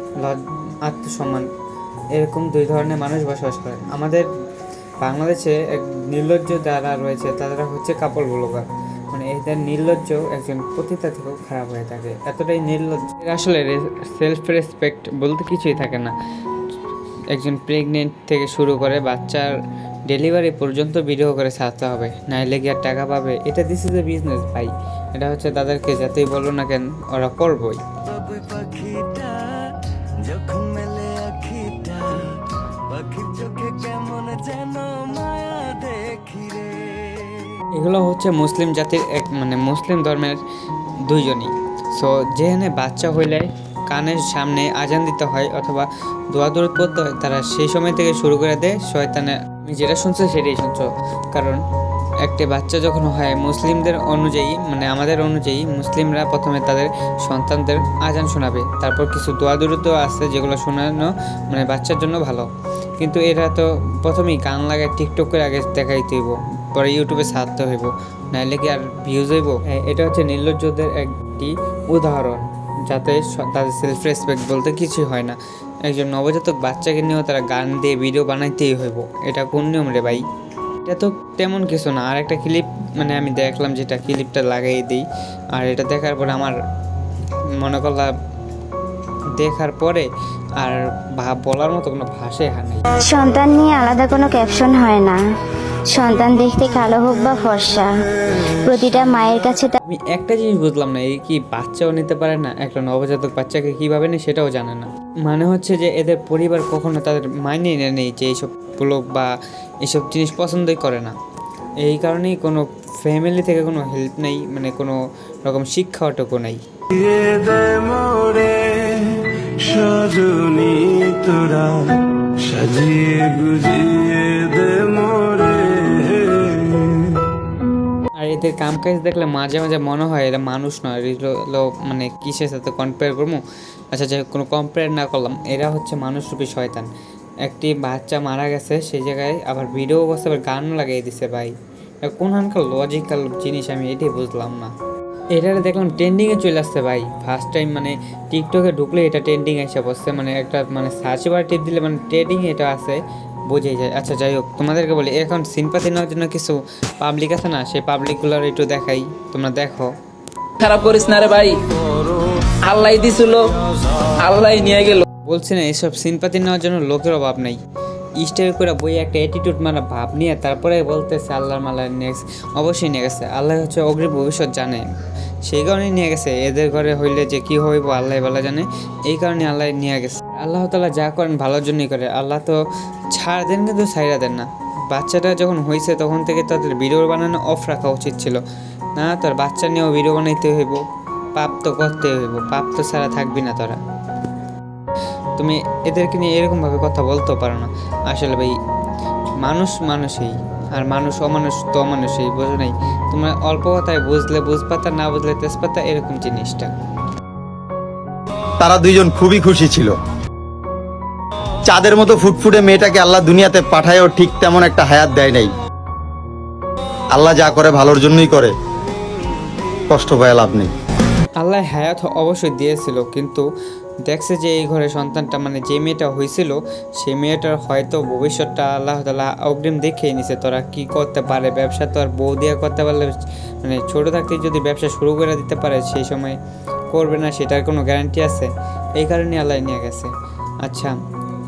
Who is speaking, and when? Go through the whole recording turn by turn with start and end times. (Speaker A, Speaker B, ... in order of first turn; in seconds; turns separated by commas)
Speaker A: 0.2-1.5, Speaker A: 2.1-4.3, Speaker A: 5.0-16.1, Speaker A: 17.3-19.6, Speaker A: 20.1-27.8, Speaker B: 28.1-37.6, Speaker A: 37.7-40.4, Speaker A: 41.0-51.6, Speaker A: 52.2-80.2, Speaker A: 80.8-86.6, Speaker A: 87.6-88.2, Speaker A: 89.3-92.8, Speaker C: 93.0-95.2, Speaker C: 95.9-98.0, Speaker C: 98.5-99.8, Speaker A: 99.8-111.2, Speaker A: 111.8-116.6, Speaker B: 116.9-127.2, Speaker A: 128.2-136.9, Speaker A: 137.4-144.7, Speaker A: 145.3-159.9, Speaker D: 160.6-165.1, Speaker A: 165.3-167.6, Speaker A: 168.2-174.9, Speaker A: 175.4-182.6, Speaker A: 183.1-188.4, Speaker A: 189.0-190.8, Speaker A: 191.3-193.8, Speaker A: 195.4-198.6, Speaker A: 199.4-206.7, Speaker E: 208.6-209.9, Speaker E: 211.7-215.5, Speaker E: 217.1-218.5, Speaker E: 219.9-220.7, Speaker A: 221.4-223.5, Speaker A: 224.1-236.4, Speaker A: 236.9-240.1, Speaker A: 240.6-241.0